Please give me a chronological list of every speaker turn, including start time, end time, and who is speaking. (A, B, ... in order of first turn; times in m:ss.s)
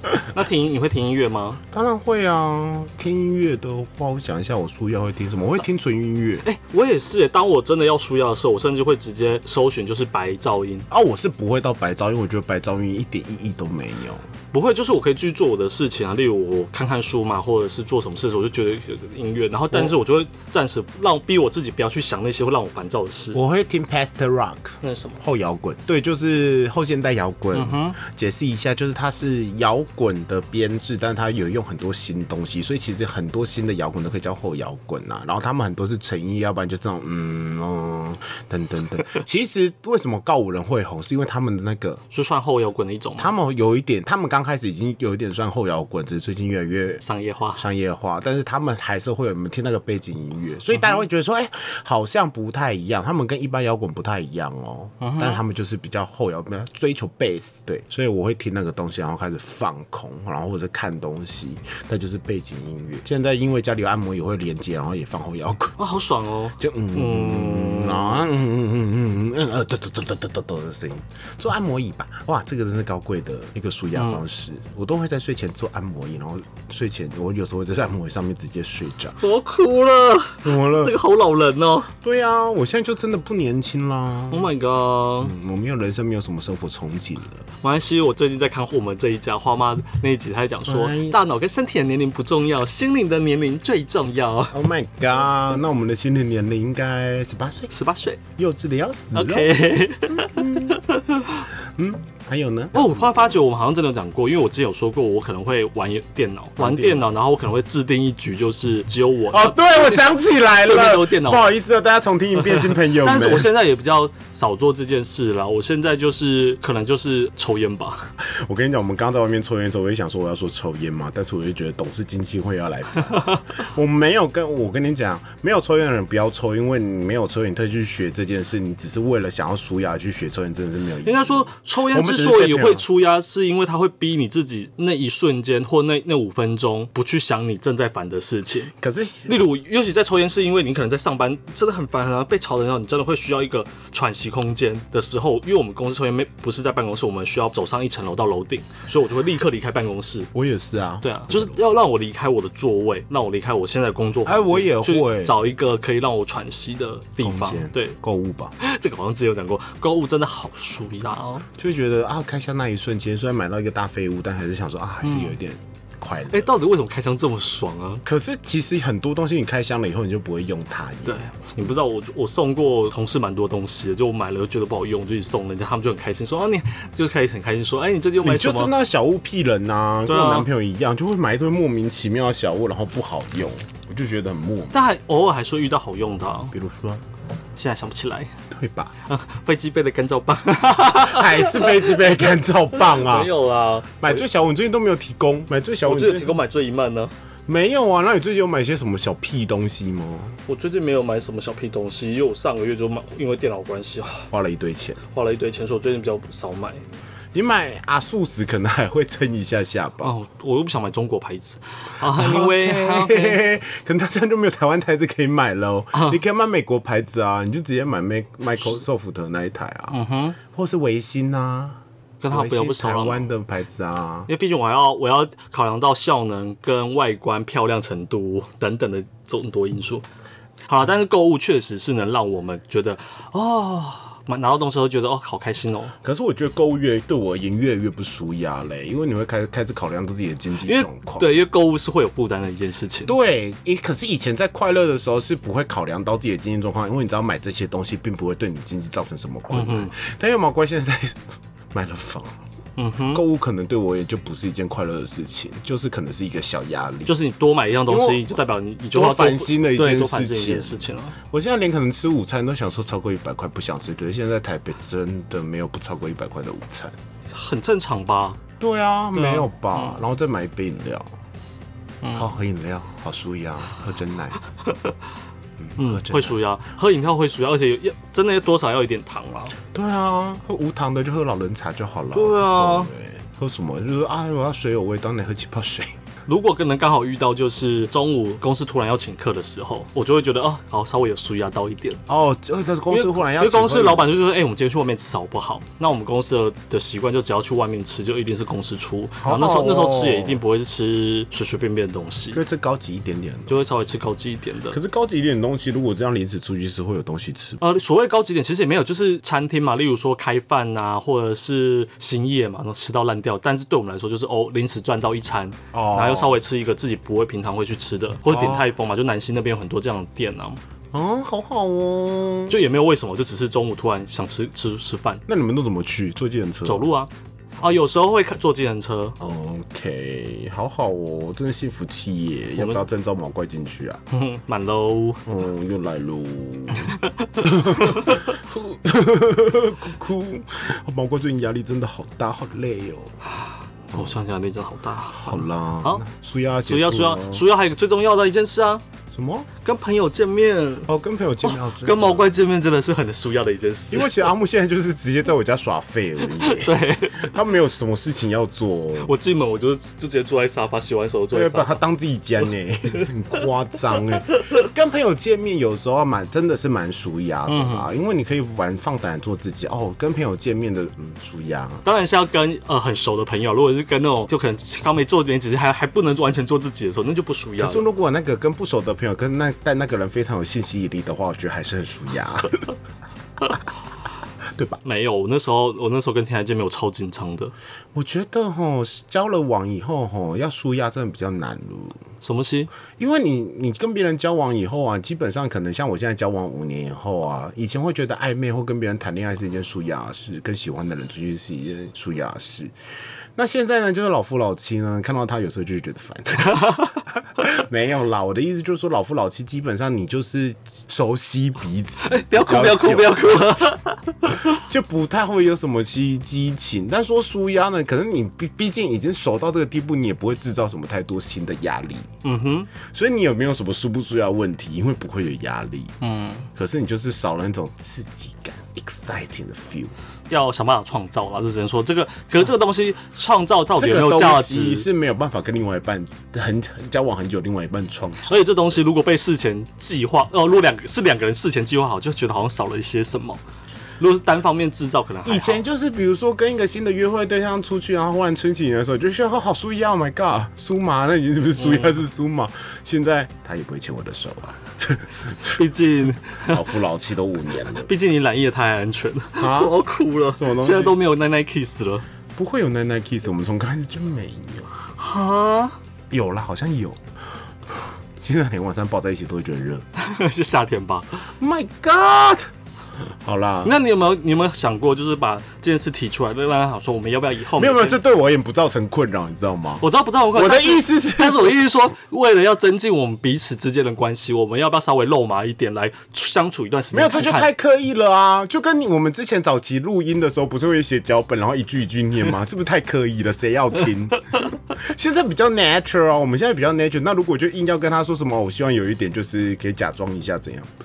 0:00.3-0:01.6 A
0:01.7-0:06.4 B
0:06.4-0:10.8 A
0:10.9-0:14.2 B
0:14.5-0:23.4 A
0:23.3-0:42.0 B
0:24.8-0:25.2 A
0:27.5-0:28.0 A
0:42.1-0:43.3 A
0:43.2-0:47.0 B
0:47.0-0:47.6 A
0:47.5-1:05.8 B
0:55.0-0:55.4 A
1:05.8-1:08.3 A
1:06.6-1:19.2 B
1:13.9-1:14.2 A
1:19.2-1:21.9 A
1:20.4-1:20.9 B
1:22.0-1:24.5 B
1:24.3-1:25.3 A
1:25.2-1:27.4 B
1:27.6-1:34.5 A
1:30.6-1:31.2 B
1:34.5-1:37.7 B
1:37.7-1:38.2 A
1:38.4-1:39.5 B
1:39.1-1:41.5 A
1:40.2-1:40.8 B
1:41.8-1:43.4 B
1:42.7-1:50.0 A
1:46.6-1:47.0 B
1:49.3-1:53.5 B
1:50.6-1:51.5 A
1:52.4-1:58.1 A
1:58.2-2:12.8 B
2:11.0-2:18.7 A
2:18.8-2:19.4 B
2:19.3-2:30.3 A
2:30.3-2:31.6 B
2:31.0-2:38.0 A
2:34.2-2:35.4 B
2:37.2-2:38.5 B
2:38.6-2:41.4 A
2:41.6-2:46.5 B
2:45.0-2:45.3 A
2:46.3-2:48.0 A
2:48.0-2:51.2 B
2:51.0-2:58.7 A
2:58.2-3:04.8 B
3:00.0-3:00.5 A
3:04.7-3:06.5 A
3:06.5-3:07.0 B
3:07.6-3:08.3 A
3:08.5-3:08.9 B
3:09.1-3:14.2 A
3:10.9-3:13.3 B
3:14.0-3:16.4 B
3:15.8-3:17.1 A
3:17.5-3:20.4 B
3:20.5-3:24.3 A
3:24.3-3:25.0 B
3:25.1-3:26.8 A
3:27.3-3:30.1 B
3:30.0-3:33.4 A
3:32.0-3:44.3 B
3:35.9-3:36.2 A
3:39.9-3:40.4 A
3:42.2-3:43.2 A
3:44.3-3:50.0 A
3:50.7-3:55.9 A
3:56.0-4:01.3 B
4:00.6-4:03.1 A
4:03.0-4:12.4 B
4:09.5-4:09.9 A
4:12.8-4:13.2 A
4:13.1-4:17.1 B
4:17.0-4:21.2 A
4:17.9-4:18.3 B
4:18.9-4:26.9 B
4:27.3-4:28.4 A
4:28.6-4:31.0 B
4:29.1-4:30.0 A
4:32.0-4:32.3 A
4:32.1-4:34.4 B
4:34.7-4:34.9 A
4:35.6-4:36.4 B
4:35.8-4:39.6 A
4:39.7-4:46.0 B
4:42.1-4:42.9 A
4:46.3-4:52.0 A
4:52.1-4:54.1 B
4:52.9-5:02.4 A
4:59.2-5:00.4 B
5:02.3-5:03.6 B
5:03.5-5:04.8 A
5:04.7-5:07.6 B
5:07.6-5:20.6 A
5:15.7-5:16.4 B
5:18.3-5:18.7 B
5:20.9-5:22.6 B
5:22.5-5:25.2 A
5:25.3-5:26.9 B
5:26.6-5:29.1 A
5:29.2-5:34.0 B
5:34.1-5:35.2 A
5:35.2-5:43.2 B
5:36.7-5:38.2 A
5:43.4-5:46.0 A
5:45.1-5:47.4 B
5:46.6-5:48.8 A
5:49.1-5:49.5 B
5:49.6-5:50.9 A
5:50.9-5:52.3 B
5:51.4-5:54.3 A
5:53.9-5:59.2 B
5:56.4-5:57.3 A
5:59.0-6:01.8 A
6:01.3-6:11.8 B
6:04.3-6:04.7 A
6:07.5-6:07.9 A
6:11.8-6:17.8 A
6:17.6-6:22.7 B
6:24.5-6:24.8 B
6:24.8-6:27.5 A
6:27.9-6:32.0 B
6:32.2-6:32.7 A
6:33.0-6:42.7 B
6:43.4-6:46.8 B
6:46.5-6:46.8 A
6:47.4-6:53.4 B
6:52.0-6:54.6 A
6:54.3-7:02.1 B
7:02.2-7:02.7 A
7:02.8-7:05.9 B
7:06.0-7:06.5 A
7:06.5-7:09.9 B
7:10.3-7:14.8 A
7:13.8-7:18.4 B
7:18.3-7:23.4 A
7:24.0-7:25.6 A
7:25.2-7:35.6 B
7:31.6-7:32.0 A
7:35.5-7:36.6 A
7:36.5-7:37.9 B
7:37.8-7:42.0 A
7:39.4-7:39.8 B
7:40.3-7:41.0 B
7:42.4-7:44.7 B
7:45.0-7:45.8 A
7:46.1-7:47.0 B
7:47.7-7:49.8 B
7:50.0-7:51.1 A
7:51.4-7:52.5 B
7:53.2-7:53.8 B
7:53.6-7:58.0 A
7:57.5-8:01.6 B
7:59.8-8:07.5 A
8:06.9-8:20.7 B